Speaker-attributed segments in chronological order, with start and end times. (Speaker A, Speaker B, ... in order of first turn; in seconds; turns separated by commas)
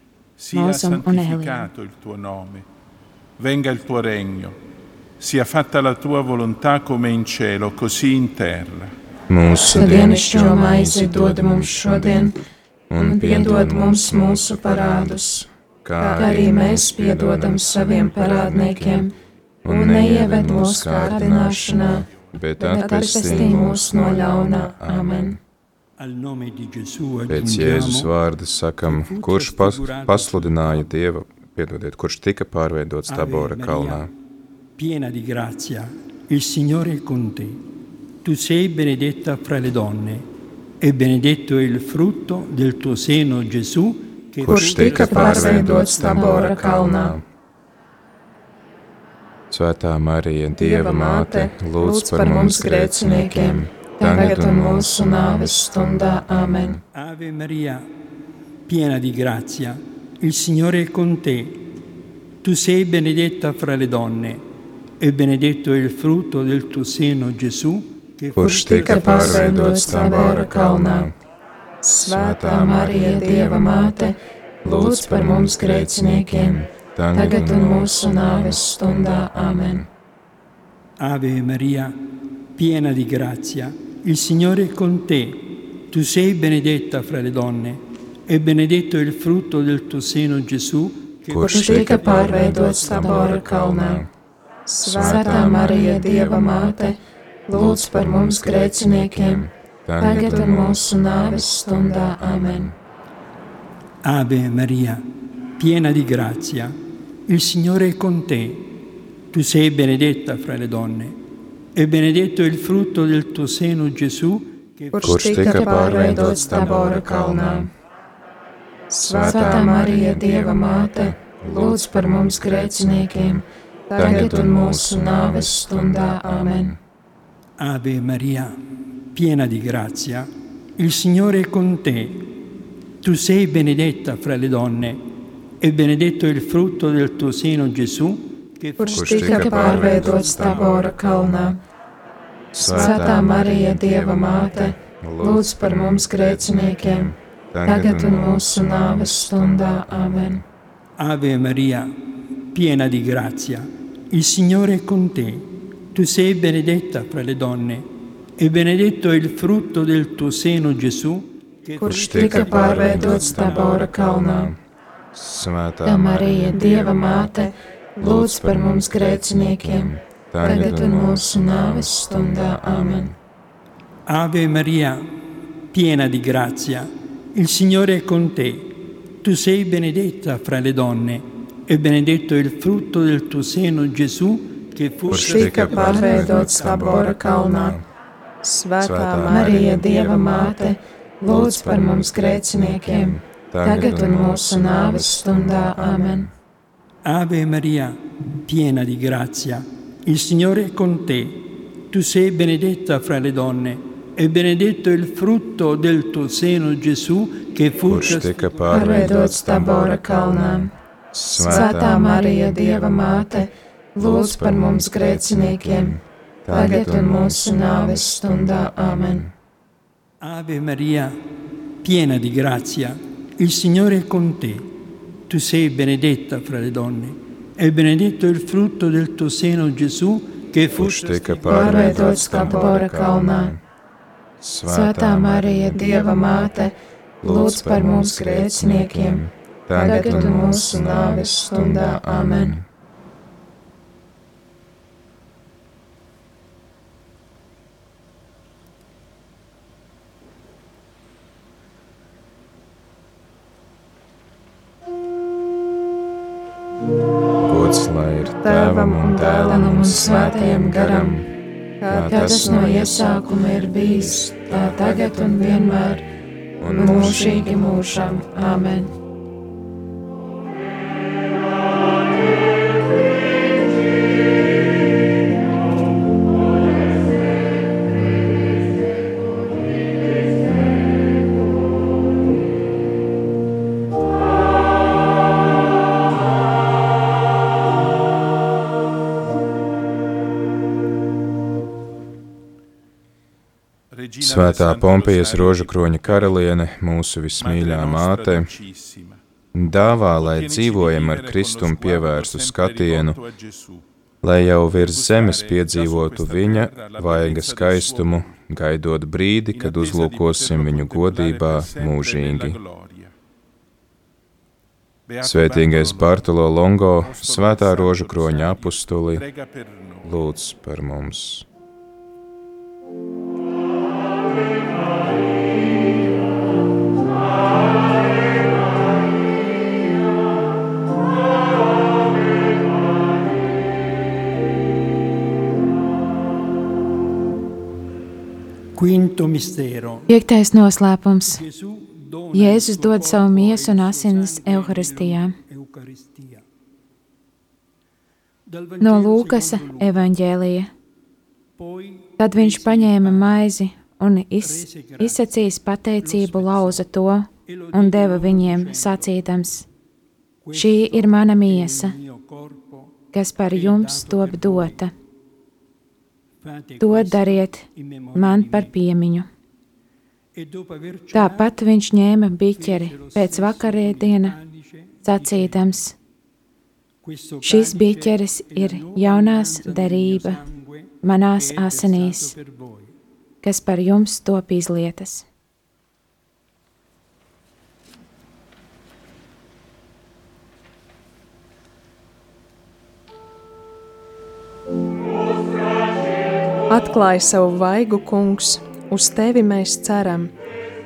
Speaker A: 0.4-2.6, Speaker B: 0.5-1.7, Speaker A: 3.4-4.6, Speaker A: 5.2-8.9, Speaker C: 9.3-12.3, Speaker D: 9.6-12.3, Speaker C: 12.9-19.1, Speaker D: 13.0-15.4, Speaker D: 16.0-19.1, Speaker C: 19.6-25.4, Speaker D: 19.6-22.1, Speaker E: 20.4-20.8, Speaker E: 22.7-23.7, Speaker D: 22.7-25.4, Speaker F: 26.0-28.1, Speaker C: 27.3-34.1, Speaker F: 28.8-30.9, Speaker F: 33.1-34.1, Speaker F: 34.8-37.6, Speaker F: 38.2-40.3, Speaker F: 40.8-45.4, Speaker C: 44.4-47.2, Speaker D: 44.5-47.1, Speaker E: 44.7-46.2, Speaker B: 46.3-46.6, Speaker C: 49.5-55.2, Speaker E: 50.6-52.6, Speaker D: 52.2-56.8, Speaker E: 54.0-54.5, Speaker C: 56.1-56.8, Speaker F: 56.9-57.9, Speaker F: 58.6-61.6, Speaker F: 62.4-64.4, Speaker F: 65.0-69.5, Speaker C: 68.3-71.1, Speaker D: 68.8-71.1, Speaker E: 69.0-70.4, Speaker E: 71.9-72.4, Speaker C: 72.0-74.0, Speaker D: 72.3-76.6, Speaker C: 74.6-79.9, Speaker D: 77.1-79.8, Speaker F: 81.0-93.2, Speaker C: 91.3-94.1, Speaker D: 91.4-94.0, Speaker E: 94.7-96.7, Speaker D: 94.8-97.0, Speaker C: 94.8-96.5, Speaker D: 97.5-99.4, Speaker C: 97.5-102.7, Speaker D: 100.0-102.7, Speaker F: 104.0-111.2, Speaker F: 111.7-115.5, Speaker E: 115.0-116.6, Speaker C: 115.0-117.7, Speaker D: 115.3-117.7, Speaker D: 118.9-126.7, Speaker C: 119.0-123.4, Speaker E: 123.9-124.5, Speaker C: 124.0-126.8, Speaker F: 127.6-128.6, Speaker F: 129.1-132.3, Speaker F: 133.0-135.0, Speaker F: 135.6-140.8, Speaker E: 138.8-140.1, Speaker C: 138.9-141.6, Speaker D: 139.0-141.6, Speaker C: 142.5-150.4, Speaker D: 142.6-147.1, Speaker D: 147.6-150.4, Speaker F: 151.0-164.1, Speaker D: 161.8-164.5, Speaker C: 161.8-164.6, Speaker C: 165.1-167.4, Speaker D: 165.8-173.1, Speaker C: 168.0-173.2, Speaker F: 174.1-175.1, Speaker F: 175.7-186.2, Speaker C: 185.1-187.8, Speaker E: 185.1-187.2, Speaker D: 185.7-187.8, Speaker E: 188.4-189.6, Speaker C: 188.8-190.6, Speaker D: 189.2-196.3, Speaker C: 191.2-196.3, Speaker F: 197.0-209.2, Speaker C: 207.8-212.2, Speaker D: 208.7-210.7, Speaker D: 211.3-215.9, Speaker C: 214.0-219.3, Speaker D: 216.5-219.2, Speaker F: 220.2-221.2, Speaker F: 221.8-224.7, Speaker F: 225.3-232.2, Speaker C: 230.8-233.6, Speaker D: 231.4-233.5, Speaker C: 234.4-236.1, Speaker B: 234.7-235.7, Speaker D: 235.7-242.5, Speaker C: 237.2-242.6, Speaker B: 239.8-240.3, Speaker C: 257.4-261.3, Speaker E: 258.4-259.4, Speaker D: 259.1-261.1, Speaker E: 261.8-262.2, Speaker C: 261.9-265.1, Speaker D: 262.0-266.0, Speaker C: 266.6-267.8, Speaker D: 266.7-268.9, Speaker A: 293.9-296.4, Speaker C: 294.2-298.5, Speaker A: 297.4-299.2, Speaker C: 299.5-303.2, Speaker A: 300.2-303.8, Speaker C: 304.2-312.6, Speaker A: 304.8-308.4, Speaker A: 309.5-313.1, Speaker A: 315.1-316.3, Speaker C: 315.2-319.2, Speaker A: 317.0-320.1, Speaker C: 320.0-321.4, Speaker F: 338.7-340.1, Speaker B: 340.1-341.4, Speaker F: 341.3-346.4, Speaker B: 342.3-345.3, Speaker F: 348.5-350.1, Speaker B: 348.8-350.7, Speaker F: 351.6-353.5, Speaker B: 352.2-359.7, Speaker F: 354.4-355.3, Speaker F: 356.0-356.9, Speaker F: 357.5-359.1, Speaker F: 360.4-364.9, Speaker B: 360.5-362.0, Speaker B: 363.1-364.9, Speaker F: 366.4-368.7, Speaker B: 366.8-369.3, Speaker F: 370.4-371.6, Speaker B: 371.1-374.4, Speaker F: 372.5-375.8, Speaker B: 375.0-375.9, Speaker F: 377.0-382.9, Speaker B: 377.4-380.4, Speaker B: 381.0-382.3, Speaker B: 383.4-385.2, Speaker E: 396.7-400.3